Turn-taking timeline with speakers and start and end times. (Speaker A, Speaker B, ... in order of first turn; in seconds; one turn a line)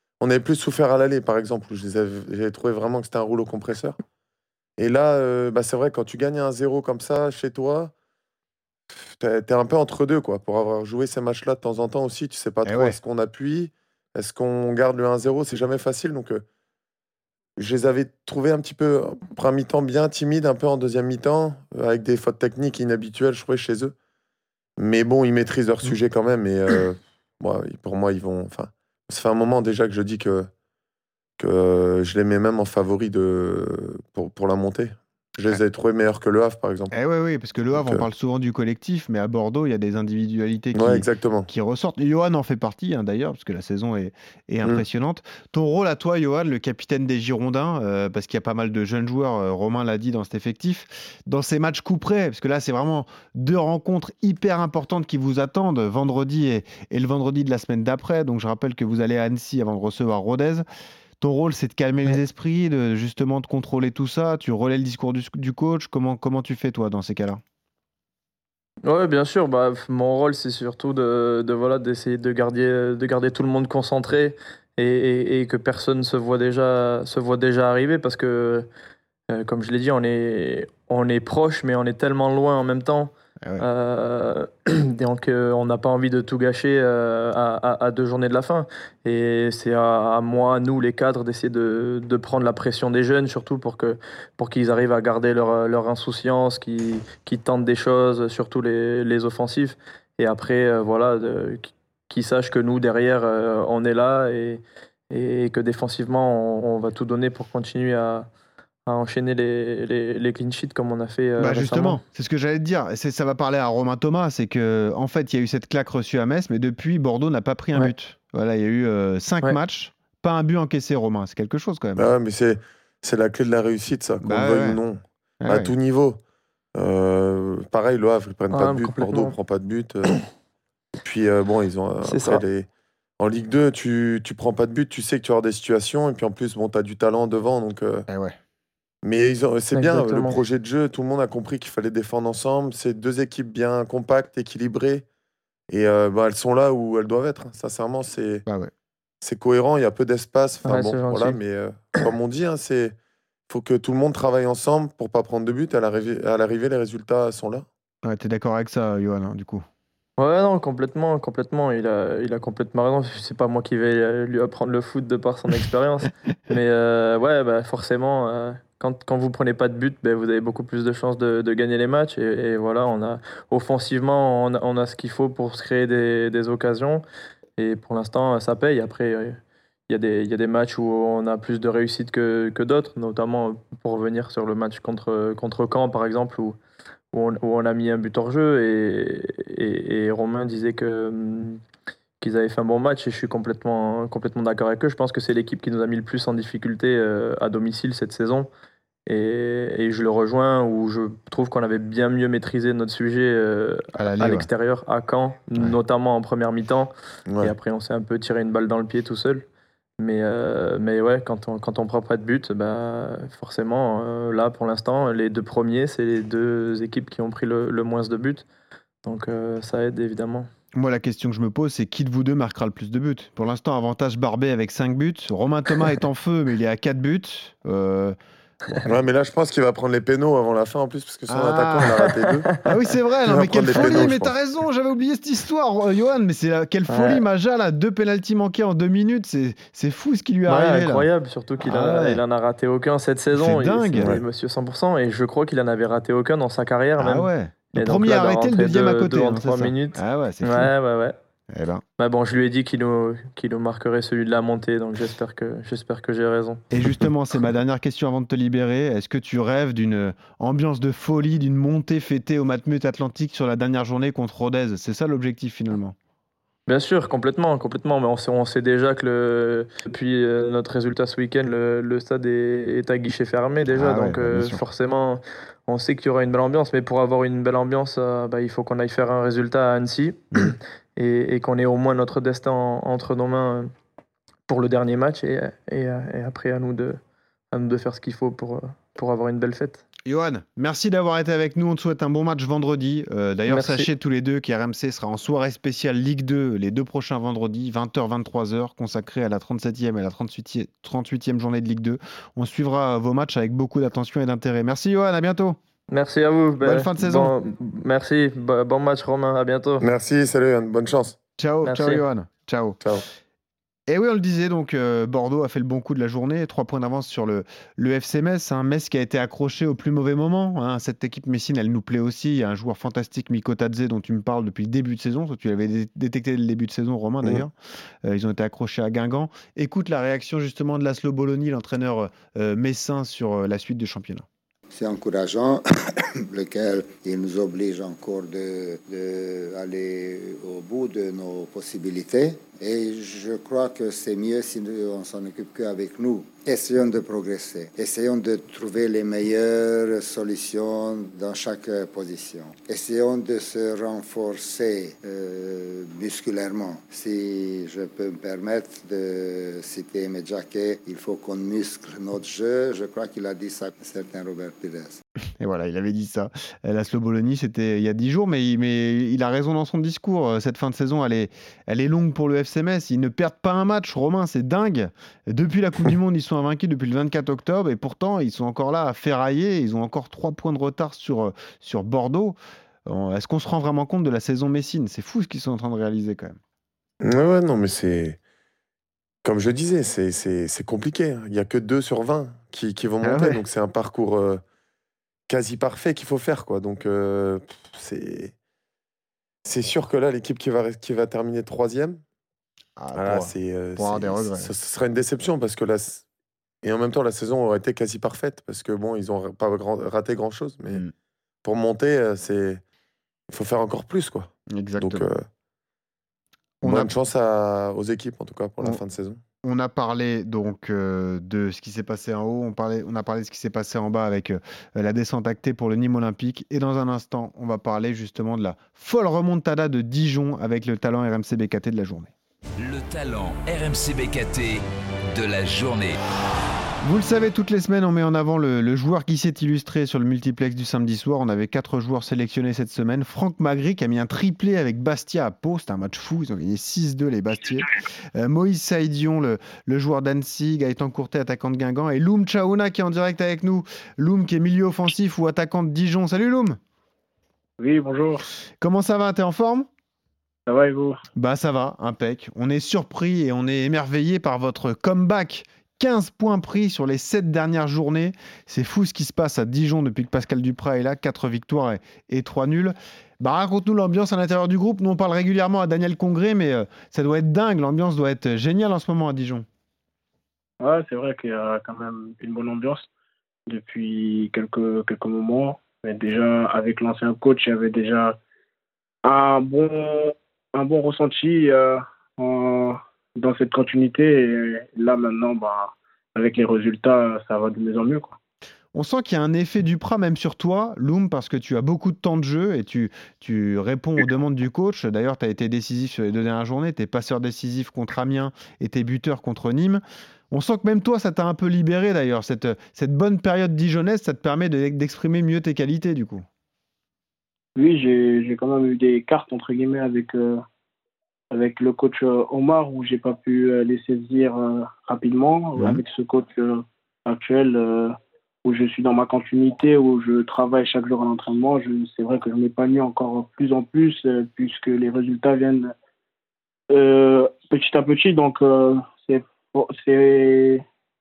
Speaker A: 0.2-4.0
Speaker A: 4.8-7.9
Speaker A: 8.9-16.4
Speaker B: 12.6-13.0
Speaker A: 17.6-23.9
Speaker A: 24.8-30.5
Speaker A: 31.4-36.9
Speaker B: 36.9-60.6
Speaker A: 37.7-38.0
Speaker A: 40.7-41.5
Speaker B: 61.2-67.4
Speaker C: 68.8-78.7
Speaker C: 79.3-108.3
Speaker C: 108.9-112.0
Speaker B: 111.4-122.1
Speaker A: 122.0-126.2
Speaker B: 124.2-124.8
Speaker B: 125.4-125.7
Speaker A: 126.7-130.2
Speaker C: 128.5-129.3
Speaker A: 131.0-132.7
Speaker C: 132.0-132.4
Speaker A: 133.2-138.1
Speaker B: 138.1-138.3
Speaker A: 139.0-145.0
Speaker C: 139.7-140.3
Speaker A: 145.7-148.4
Speaker B: 148.4-148.7
Speaker A: 149.2-152.9
Speaker C: 150.6-151.4
Speaker A: 153.5-157.7
Speaker B: 158.0-159.6
Speaker C: 160.2-177.0
Speaker C: 177.6-179.4
Speaker C: 179.9-186.6
Speaker C: 187.1-191.6
Speaker C: 192.2-198.5
Speaker C: 199.1-209.4
Speaker B: 203.9-204.5
Speaker C: 210.0-218.4
Speaker C: 219.0-220.5
Speaker B: 220.7-228.2
Speaker A: 228.8-232.5
Speaker B: 231.3-232.0
Speaker B: 232.7-241.1
Speaker A: 233.3-234.3
Speaker C: 236.9-237.2
Speaker C: 240.5-251.2
Speaker B: 241.6-242.2
Speaker B: 243.3-244.2
Speaker B: 247.0-250.7
Speaker B: 251.5-251.8
Speaker C: 252.0-256.6
Speaker B: 256.7-265.9
Speaker C: 266.7-283.7
Speaker B: 273.7-274.6
Speaker C: 284.5-287.0
Speaker C: 287.5-289.8
Speaker B: 290.0-305.6
Speaker C: 293.5-293.9
Speaker C: 305.9-309.8
Speaker B: 306.6-307.3
Speaker A: 309.8-311.2
Speaker B: 311.4-312.8
Speaker C: 311.6-312.0
Speaker B: 313.9-327.5
Speaker B: 328.0-334.2
Speaker D: 334.7-335.6
Speaker D: 336.3-365.0
Speaker B: 365.4-386.4
Speaker A: 387.0-388.2
Speaker A: 389.2-394.4
Speaker B: 393.0-393.4
Speaker A: 395.3-398.3
Speaker A: 399.4-402.0
Speaker B: 402.8-404.5
Speaker A: 402.9-406.0
Speaker A: 406.6-410.8
Speaker A: 411.4-412.6
Speaker A: 413.3-415.2
Speaker B: 414.5-415.1
Speaker B: 416.6-416.9
Speaker A: 416.6-419.2
Speaker B: 419.4-432.1
Speaker E: 432.6-434.6
Speaker E: 435.2-435.9
Speaker B: 436.8-456.6
Speaker F: 457.6-458.2
Speaker B: 458.6-459.7
Speaker F: 460.5-461.0
Speaker B: 461.1-479.4
Speaker F: 480.6-482.9
Speaker F: 483.5-488.1
Speaker F: 489.0-498.1
Speaker B: 498.7-516.2
Speaker F: 517.6-520.4
Speaker F: 521.3-527.9
Speaker F: 528.4-535.7
Speaker F: 536.7-540.6